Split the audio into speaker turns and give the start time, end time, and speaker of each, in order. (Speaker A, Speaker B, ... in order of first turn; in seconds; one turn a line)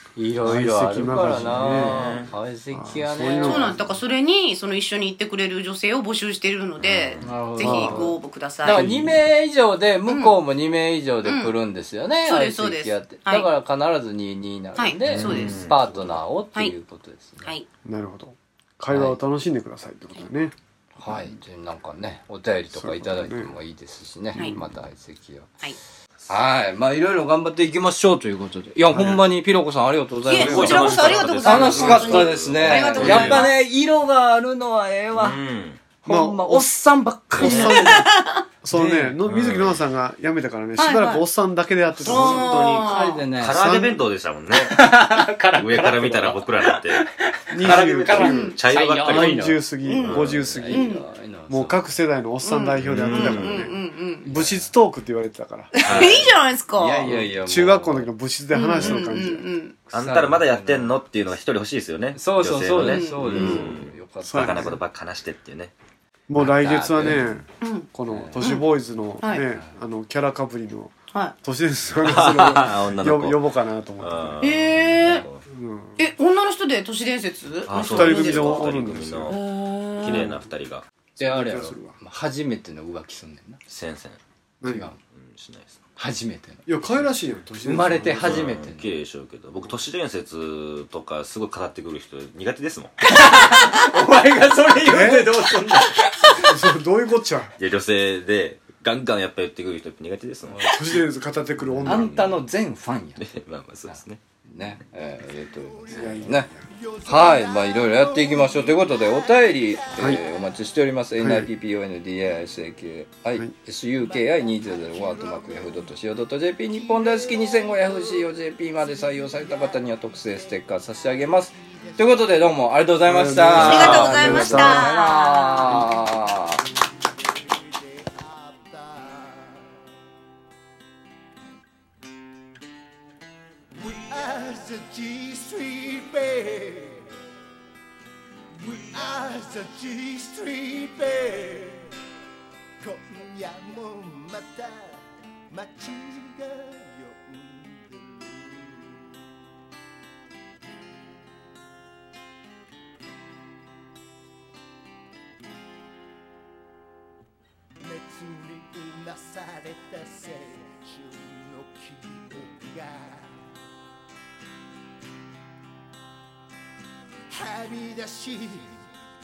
Speaker A: 0.1-3.7
Speaker B: 0.4-2.1
Speaker C: 1.5-2.3
Speaker B: 2.7-3.8
Speaker D: 3.4-8.8
Speaker C: 6.8-7.3
Speaker A: 7.2-8.1
Speaker B: 7.6-8.1
Speaker A: 8.6-17.5
Speaker B: 8.8-9.1
Speaker D: 10.1-10.3
Speaker D: 11.2-11.5
Speaker D: 12.2-13.5
Speaker D: 14.8-15.7
Speaker C: 15.1-16.2
Speaker B: 17.8-21.4
Speaker A: 18.9-19.2
Speaker A: 20.9-25.5
Speaker B: 22.7-23.6
Speaker B: 24.3-24.6
Speaker A: 26.3-35.4
Speaker B: 28.9-29.2
Speaker D: 30.2-33.5
Speaker B: 30.3-32.3
Speaker C: 30.3-33.5
Speaker B: 33.0-33.3
Speaker C: 35.1-35.8
Speaker A: 36.0-38.0
Speaker B: 36.0-36.7
Speaker B: 37.3-42.8
Speaker C: 37.4-37.8
Speaker D: 37.4-38.4
Speaker A: 38.7-39.2
Speaker C: 39.2-39.9
Speaker D: 40.8-41.2
Speaker D: 42.0-43.2
Speaker C: 42.0-42.9
Speaker A: 42.5-43.6
Speaker C: 43.4-45.0
Speaker B: 43.4-44.0
Speaker A: 44.5-51.8
Speaker C: 45.5-47.0
Speaker B: 47.5-56.1
Speaker C: 47.6-49.4
Speaker D: 48.2-48.6
Speaker D: 49.9-51.0
Speaker C: 50.0-50.5
Speaker D: 52.4-54.3
Speaker C: 52.8-53.7
Speaker D: 55.7-57.1
Speaker C: 55.8-56.4
Speaker A: 56.8-58.1
Speaker B: 57.0-59.5
Speaker D: 58.5-59.8
Speaker A: 59.9-60.9
Speaker C: 59.9-65.7
Speaker A: 62.1-64.7
Speaker D: 62.8-63.7
Speaker B: 63.3-63.6
Speaker B: 64.2-64.8
Speaker B: 66.3-74.6
Speaker A: 66.3-67.4
Speaker D: 67.6-67.9
Speaker C: 72.0-73.4
Speaker C: 74.0-75.4
Speaker D: 74.4-75.2
Speaker B: 75.4-76.0
Speaker D: 76.0-78.7
Speaker C: 77.7-79.4
Speaker B: 77.9-79.4
Speaker D: 79.3-80.3
Speaker C: 80.0-80.8
Speaker A: 81.2-83.6
Speaker B: 81.2-82.0
Speaker C: 83.7-84.2
Speaker B: 84.6-84.9
Speaker A: 84.6-85.0
Speaker C: 85.1-85.8
Speaker A: 86.0-86.6
Speaker B: 86.7-88.6
Speaker A: 87.6-88.9
Speaker C: 88.2-92.9
Speaker A: 93.0-96.5
Speaker B: 94.8-95.5
Speaker B: 96.4-97.5
Speaker C: 97.6-101.0
Speaker A: 100.5-100.8
Speaker B: 100.6-102.3
Speaker C: 101.7-102.4
Speaker A: 101.8-103.2
Speaker C: 103.2-104.2
Speaker A: 103.9-106.5
Speaker E: 105.4-110.7
Speaker B: 105.9-106.6
Speaker A: 107.0-126.6
Speaker B: 111.2-111.5
Speaker E: 113.9-122.6
Speaker B: 123.0-124.9
Speaker D: 123.6-125.7
Speaker C: 123.7-124.5
Speaker E: 127.2-129.8
Speaker E: 133.7-137.1
Speaker E: 138.6-141.9
Speaker E: 142.8-149.1
Speaker E: 157.8-163.4
Speaker E: 167.3-168.8